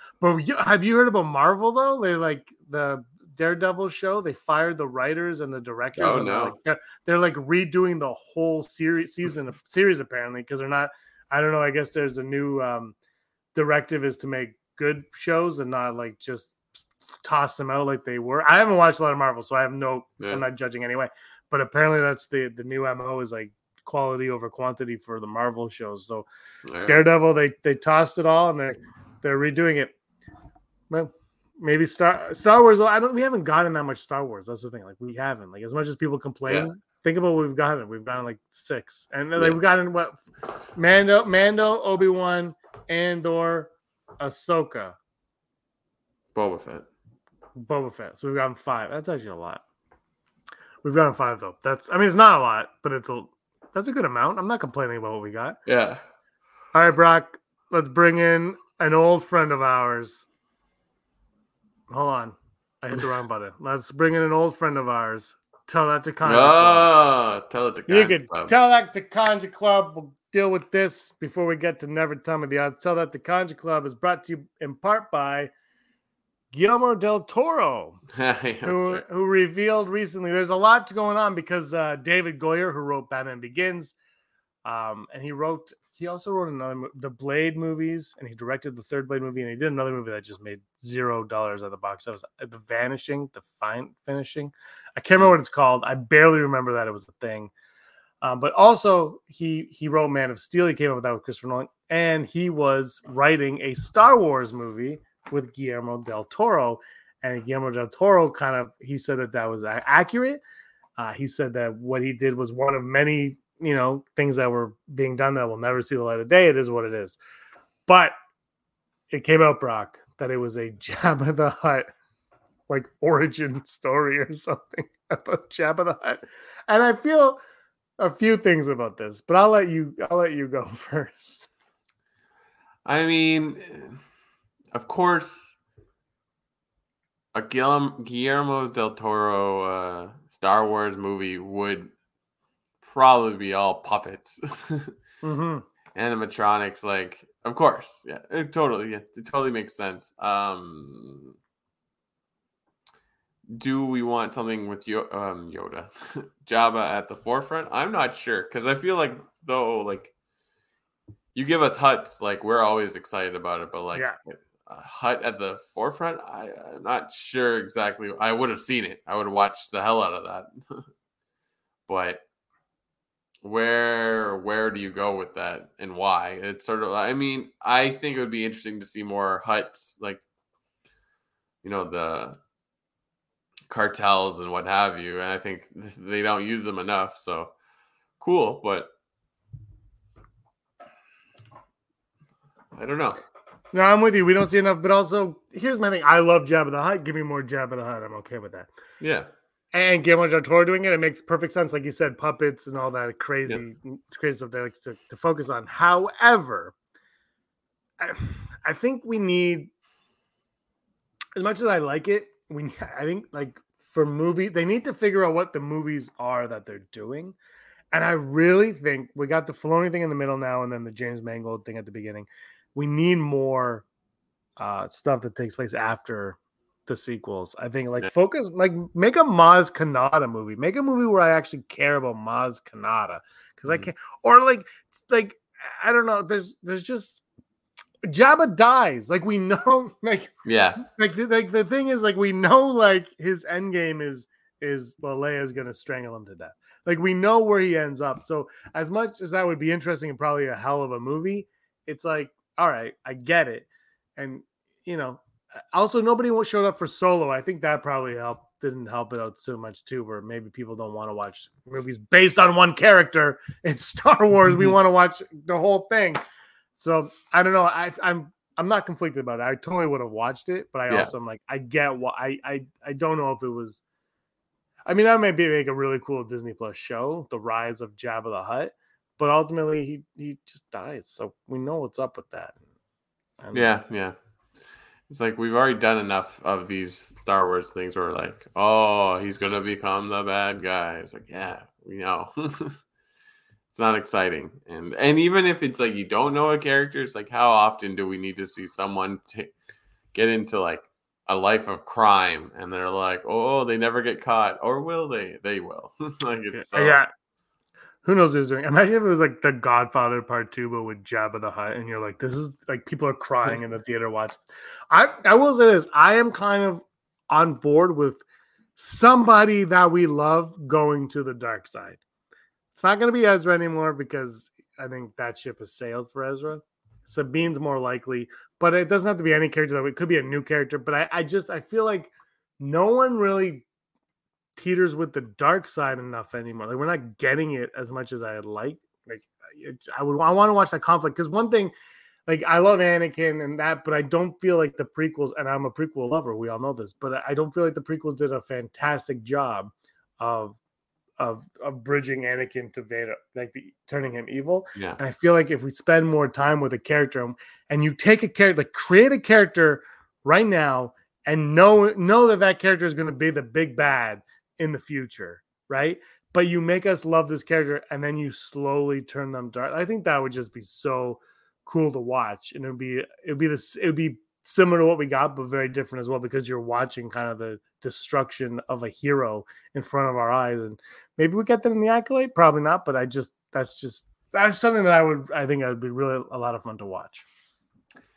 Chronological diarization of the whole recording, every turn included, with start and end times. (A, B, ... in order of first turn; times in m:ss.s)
0:00.2-0:12.9 A
0:06.0-0:06.5 B
0:13.5-0:16.5 A
0:17.2-0:26.3 A
0:26.7-0:27.0 B
0:26.8-0:29.9 A
0:30.9-0:40.2 A
0:40.8-0:45.0 A
0:46.3-0:46.9 B
0:47.6-0:49.6 A
0:50.8-0:55.6 A
0:55.6-0:56.0 B
0:56.7-1:00.3 A
1:01.9-1:06.9 A
1:06.2-1:08.5 B
1:07.9-1:15.5 A
1:16.5-1:18.0 A
1:18.1-1:19.0 B
1:18.6-1:23.9 A
1:24.6-1:37.5 A
1:38.2-1:50.4 A
1:51.0-1:57.2 A
1:57.9-1:58.1 A
1:59.1-2:01.9 A
2:02.7-2:07.4 A
2:08.0-2:11.5 A
2:12.8-2:14.0 B
2:14.7-2:15.6 B
2:17.3-2:21.9 B
2:22.8-2:25.0 B
2:25.2-2:25.6 A
2:25.9-2:31.4 B
2:33.5-2:40.1 B
2:41.3-2:50.8 B
2:51.9-2:52.2 B
2:53.4-3:00.2 B
3:01.6-3:02.4 B
3:03.7-3:07.5 B
3:08.2-3:08.9 B
3:12.7-3:13.2 B
3:13.7-3:18.7 A
3:19.0-3:19.3 B
3:19.7-3:26.7 A
3:28.0-3:29.7 A
3:31.4-3:37.4 A
3:37.9-3:43.8 A
3:44.6-3:57.2 A
3:58.1-4:15.2 A
4:00.4-4:00.8 B
4:15.7-4:26.2 A
4:26.8-4:33.8 A
4:34.8-4:42.6 A
4:43.4-4:43.7 A
4:43.5-4:44.2 B
4:45.1-4:52.8 B
4:53.7-4:59.5 B
5:00.1-5:07.0 B
5:06.5-5:07.1 A
5:08.0-5:14.4 A
5:14.9-5:18.2 A
5:18.8-5:22.0 A
5:22.7-5:33.6 A
5:34.6-5:41.7 A
5:42.3-5:50.6 A
5:51.2-6:27.2 A